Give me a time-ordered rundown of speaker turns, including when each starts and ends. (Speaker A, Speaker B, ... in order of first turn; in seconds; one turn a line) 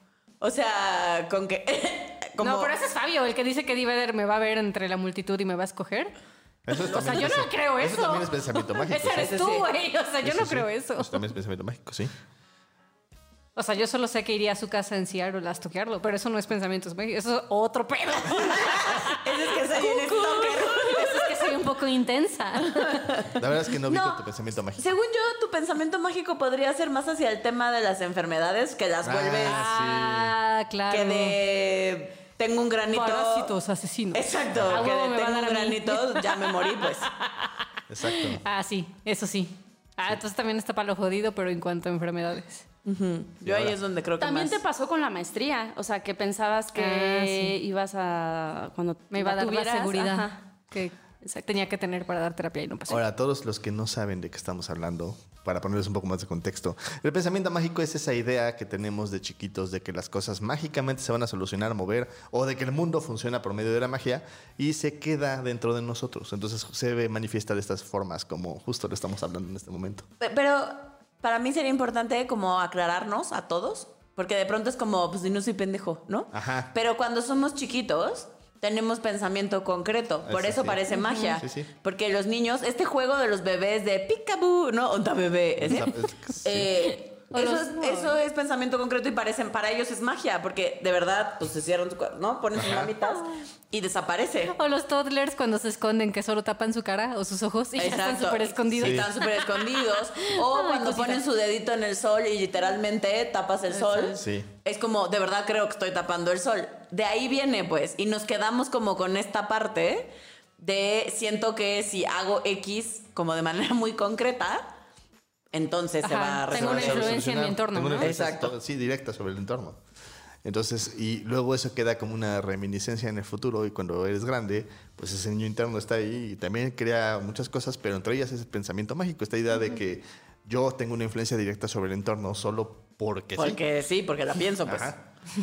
Speaker A: 0.4-2.8
Speaker B: 2.4-6.1
Speaker C: 6.7-9.7
Speaker B: 6.8-11.1
Speaker A: 9.1-9.7
Speaker C: 10.2-12.1
Speaker B: 13.6-23.2
Speaker A: 18.4-21.6
Speaker A: 22.8-23.3
Speaker C: 23.3-24.9
Speaker A: 23.9-24.2
Speaker A: 24.8-29.7
Speaker C: 29.0-30.4
Speaker B: 29.5-31.4
Speaker A: 30.9-33.5
Speaker B: 32.9-36.5
Speaker A: 34.1-37.1
Speaker C: 34.5-34.9
Speaker C: 37.9-38.4
Speaker B: 38.1-42.6
Speaker A: 42.9-44.6
Speaker C: 43.4-43.8
Speaker D: 44.2-50.4
Speaker B: 46.8-47.6
Speaker B: 49.1-50.9
Speaker D: 51.2-51.5
Speaker B: 51.5-53.0
Speaker C: 52.9-70.1
Speaker A: 70.2-94.5
Speaker C: 76.3-76.7
Speaker C: 80.3-81.7
Speaker D: 81.1-81.4
Speaker C: 85.6-86.8
Speaker B: 87.3-88.2
Speaker C: 92.6-92.9
Speaker B: 94.5-101.2
Speaker A: 97.8-114.7
Speaker C: 98.8-99.1
Speaker D: 103.8-104.1
Speaker C: 104.1-104.5
Speaker A: 115.5-117.3
Speaker B: 116.0-118.1
Speaker C: 116.5-119.8
Speaker A: 118.0-118.5
Speaker C: 120.4-133.6
Speaker A: 133.4-134.9
Speaker C: 134.7-135.0